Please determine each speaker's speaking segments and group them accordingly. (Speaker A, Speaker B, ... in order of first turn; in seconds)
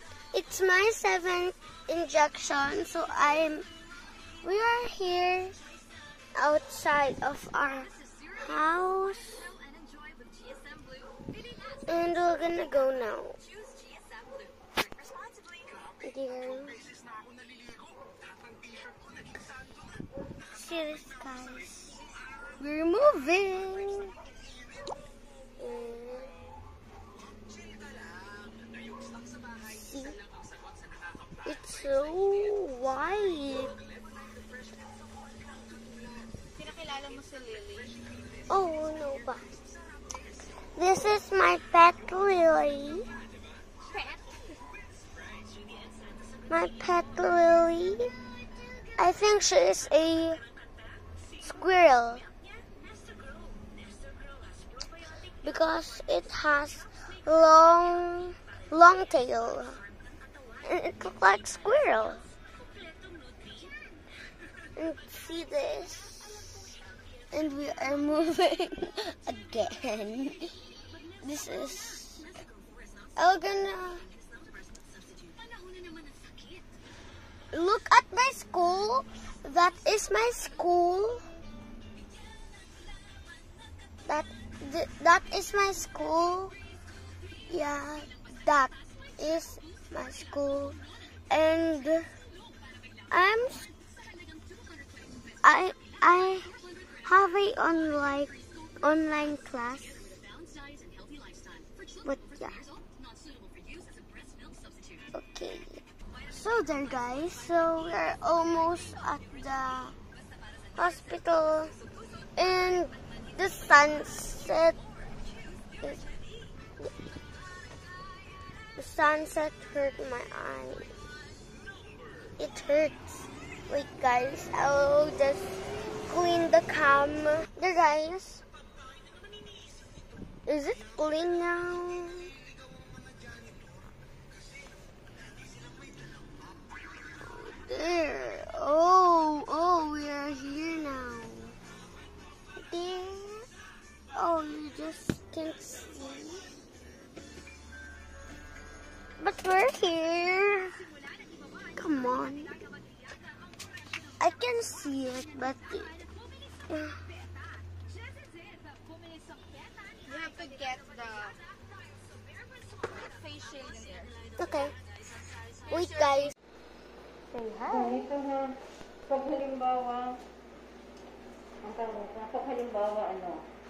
Speaker A: 0.3-3.7, 4.4-5.6, 6.3-9.5, 11.8-13.4, 16.0-16.8, 20.5-22.0, 22.6-24.1, 25.6-26.3, 29.6-30.2, 31.4-33.7, 38.5-39.5, 40.7-43.1, 46.5-48.1, 49.0-50.4, 51.4-52.2, 55.4-59.8, 60.6-62.3, 64.8-66.6, 67.3-70.6, 71.2-72.3, 73.2-74.0, 77.5-81.2, 84.0-86.5, 87.5-90.8, 91.3-92.1, 93.1-93.7, 95.4-100.1, 102.0-102.6, 105.1-109.9, 110.8-111.7, 112.3-114.8, 118.8-120.9, 122.4-128.4, 130.4-132.3, 137.2-141.6, 142.6-143.5, 144.1-146.4, 149.2-150.9, 151.7-152.6, 154.2-156.0, 156.7-156.9, 164.4-164.8, 165.7-166.3
Speaker B: 36.5-37.9, 160.0-161.4, 163.1-164.1, 167.4-167.8
Speaker C: 167.7-170.2, 171.6-173.4